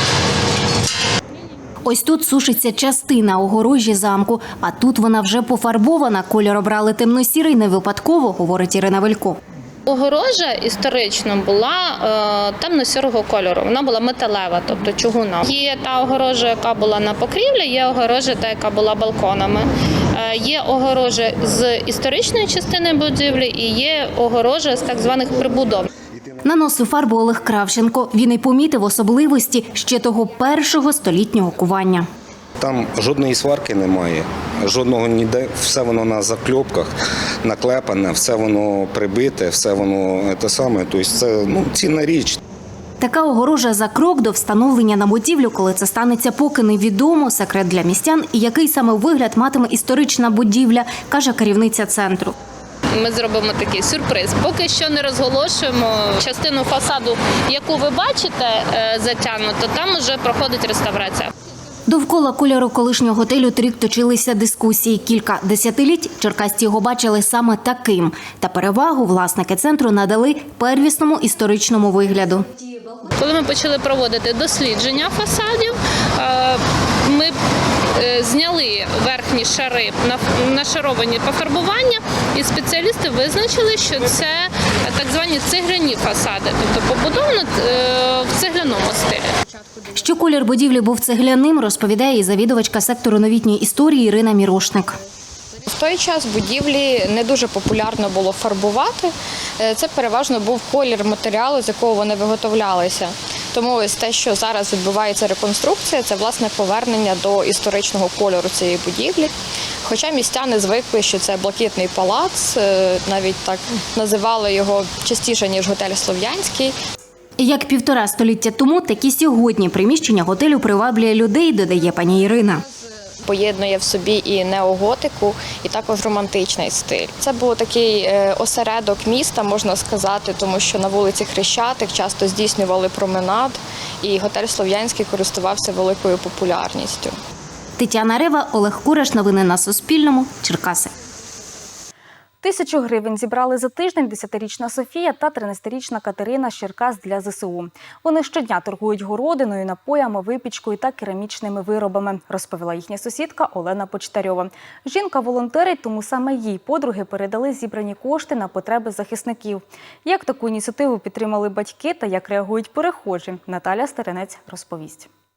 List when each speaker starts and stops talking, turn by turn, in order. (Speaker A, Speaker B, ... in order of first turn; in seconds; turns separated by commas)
Speaker A: 1.9-9.4, Speaker B: 9.9-25.9, Speaker A: 26.4-32.0, Speaker C: 32.6-42.4, Speaker A: 43.0-52.3, Speaker B: 52.9-61.3, Speaker A: 61.9-72.5, Speaker B: 73.2-77.3, Speaker B: 77.9-89.3, Speaker A: 90.0-94.9, Speaker D: 95.7-109.3, Speaker D: 109.8-116.7, Speaker A: 117.4-122.6, Speaker D: 123.3-137.1, Speaker A: 137.8-140.9, Speaker E: 142.4-165.1